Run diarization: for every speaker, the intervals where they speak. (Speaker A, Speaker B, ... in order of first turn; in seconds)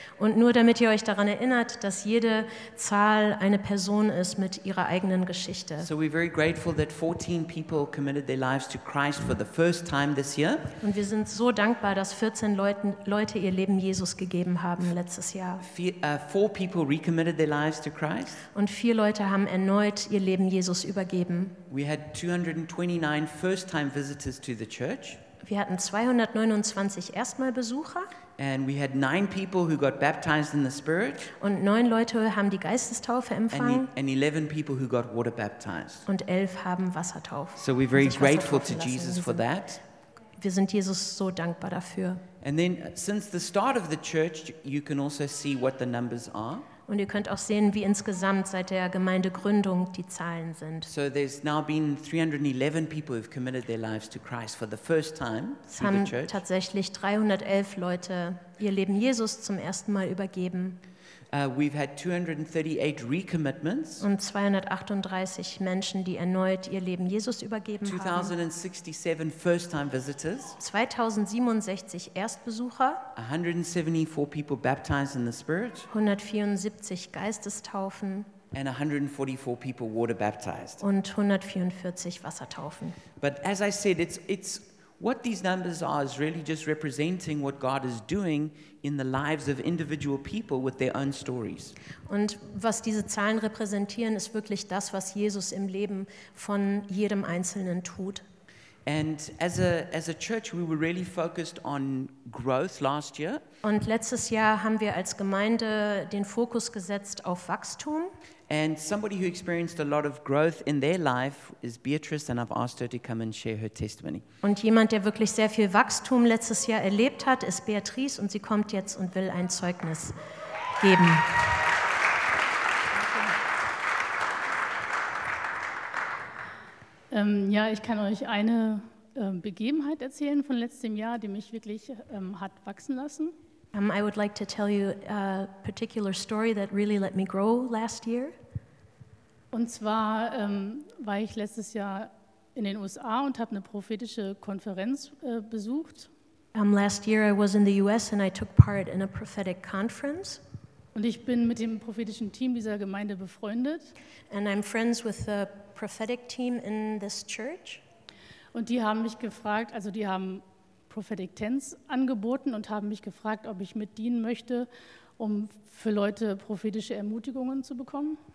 Speaker A: 0.2-5.9, 10.8-15.6, 18.5-21.6, 25.4-28.1, 31.4-33.9, 36.1-39.4, 40.4-42.2, 46.9-50.9, 55.7-60.8, 64.0-68.3, 70.6-73.1, 75.9-78.3, 80.8-83.0, 92.1-98.2, 103.6-108.1, 114.4-120.2, 120.8-121.4, 133.7-138.3, 146.5-150.4, 154.3-157.8
Speaker B: 5.8-10.7, 15.6-18.4, 21.7-25.2, 28.4-31.3, 33.5-36.1, 37.6-39.8, 42.4-46.7, 50.9-56.4, 61.3-64.0, 67.8-70.6, 73.2-75.9, 78.5-80.8, 83.2-91.8, 98.9-103.4, 108.5-114.2
Speaker C: 127.1-133.3, 139.5-146.1, 150.9-153.9, 158.5-168.2